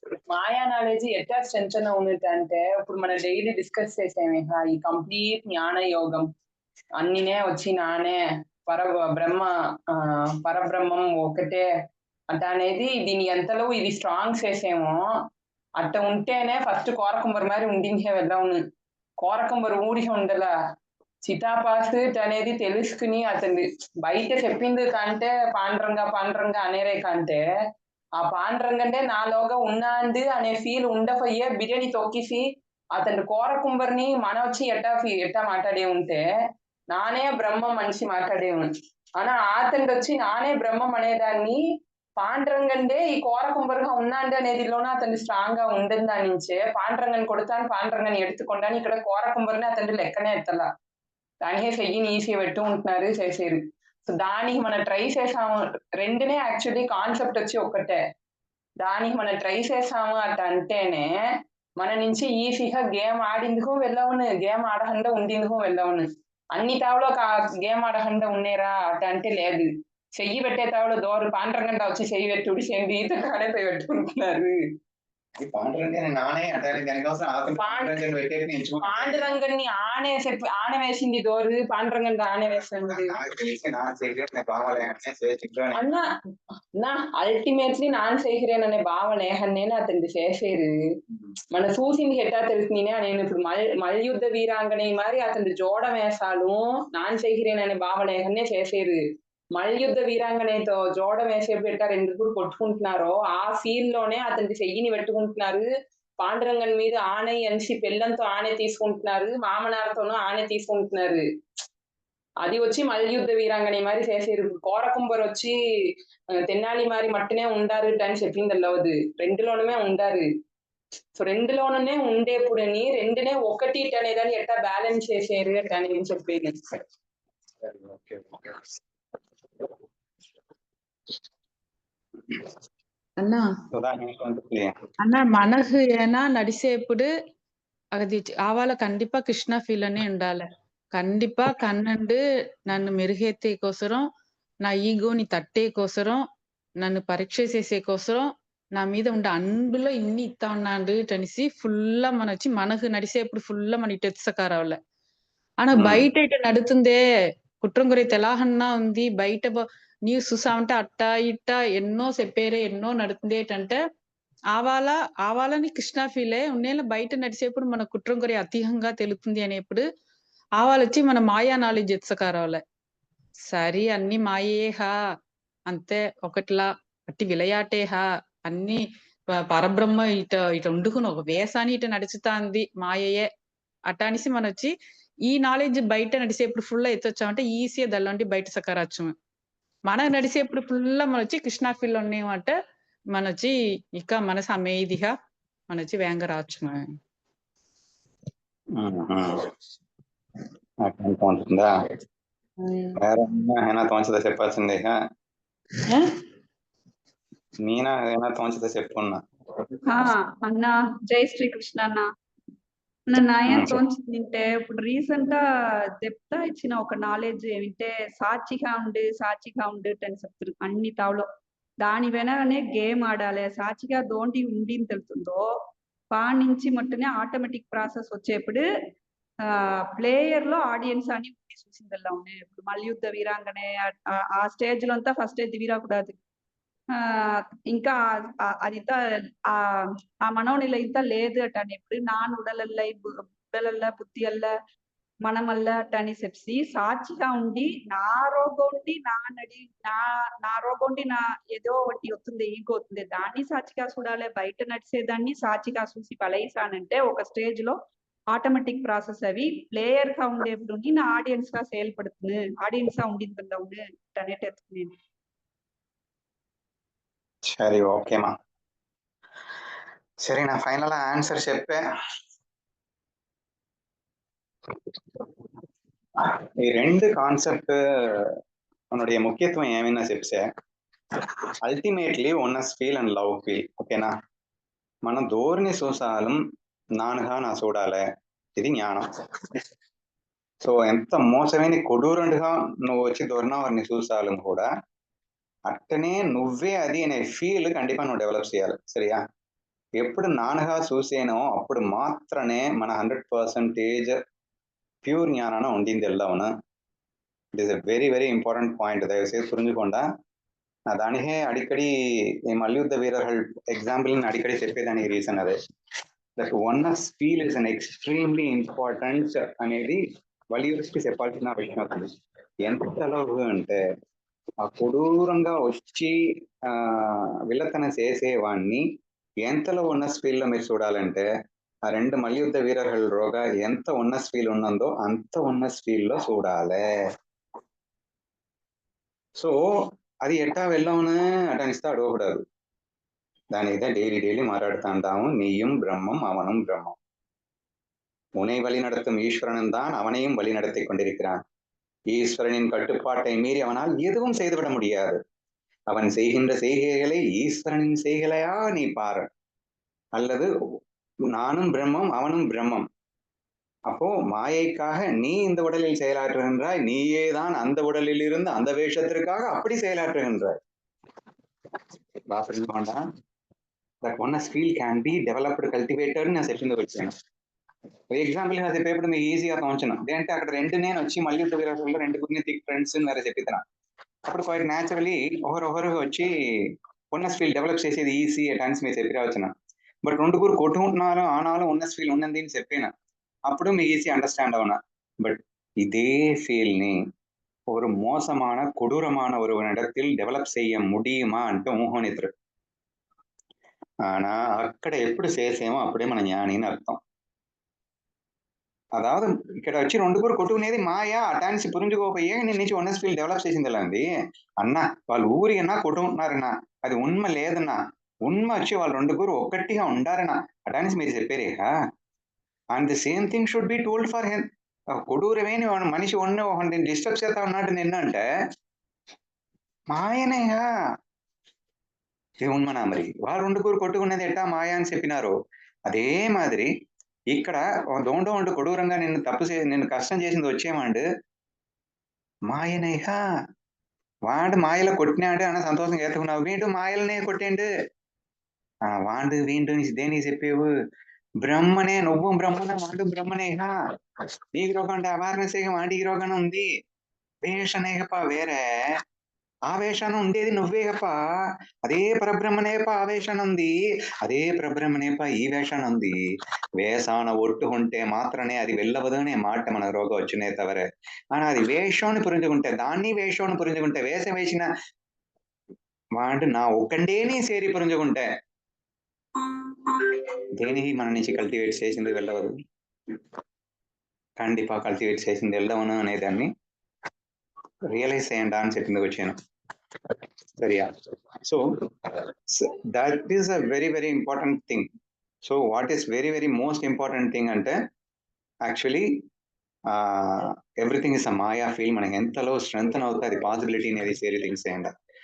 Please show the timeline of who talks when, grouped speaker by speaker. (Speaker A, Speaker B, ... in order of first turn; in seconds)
Speaker A: 0.3-6.3, 7.0-11.6, 12.3-15.0, 15.8-18.6, 19.2-20.5, 21.2-27.4, 28.2-32.4, 33.0-36.2, 36.9-41.6, 42.2-50.7, 51.4-58.0, 58.8-61.1, 61.8-74.5, 77.6-78.0, 78.8-83.2, 85.8-86.1, 86.8-90.8, 91.5-99.0, 99.5-105.7, 106.2-111.2, 112.4-115.5, 116.3-120.3, 121.2-126.6, 202.6-203.0
Speaker B: 75.4-79.2, 82.6-85.8, 127.6-128.6, 133.7-134.7, 155.7-156.1, 198.8-199.5, 200.8-201.7, 203.0-204.9, 207.6-209.2, 213.5-213.8, 267.5-268.3, 270.2-271.8, 276.2-278.4, 278.9-280.5, 281.6-284.1, 285.1-286.4, 287.0-288.0, 288.6-289.1, 290.6-294.7, 295.7-299.2, 300.0-304.2, 305.0-306.5, 307.6-310.1, 310.9-311.9, 312.5-315.6, 316.4-320.0, 320.5-322.1, 322.6-323.8, 324.6-326.2, 326.7-328.8, 329.4-331.2, 331.9-336.8, 340.2-342.4, 343.5-347.0, 348.4-351.4, 352.1-355.2, 355.9-359.3, 360.2-360.5, 361.3-362.9, 363.9-370.6, 372.3-373.0, 374.0-377.1, 378.1-383.6, 384.3-386.3, 387.1-389.5, 390.1-392.9, 393.5-397.0, 397.7-402.3, 404.1-407.0, 409.0-414.1, 414.6-421.7, 422.7-424.5, 425.1-428.2, 429.9-430.6, 432.4-435.3, 435.9-436.7, 437.3-441.1, 442.5-443.2, 444.3-447.7, 448.9-450.7, 451.4-453.7, 454.5-456.6, 457.4-458.9, 459.7-461.1, 461.9-466.2, 466.8-474.7, 476.2-478.3, 480.6-482.5, 484.4-486.5, 487.9-489.4, 490.6-490.9, 491.4-494.9, 495.4-497.8, 498.6-499.2, 499.9-504.9
Speaker C: 133.2-133.5, 135.0-137.1, 137.9-144.1, 144.6-146.2, 146.8-154.8, 155.6-157.0, 157.6-163.8, 164.5-169.8, 170.6-172.6, 173.5-174.9, 175.7-178.8, 179.5-183.3, 183.9-184.7, 185.3-189.1, 189.9-192.6, 193.1-195.1, 195.7-196.9
Speaker D: 209.9-212.1, 213.1-215.4, 216.0-221.2, 221.8-225.4, 226.1-228.6, 229.4-236.2, 236.9-244.5, 245.2-257.8, 258.3-264.9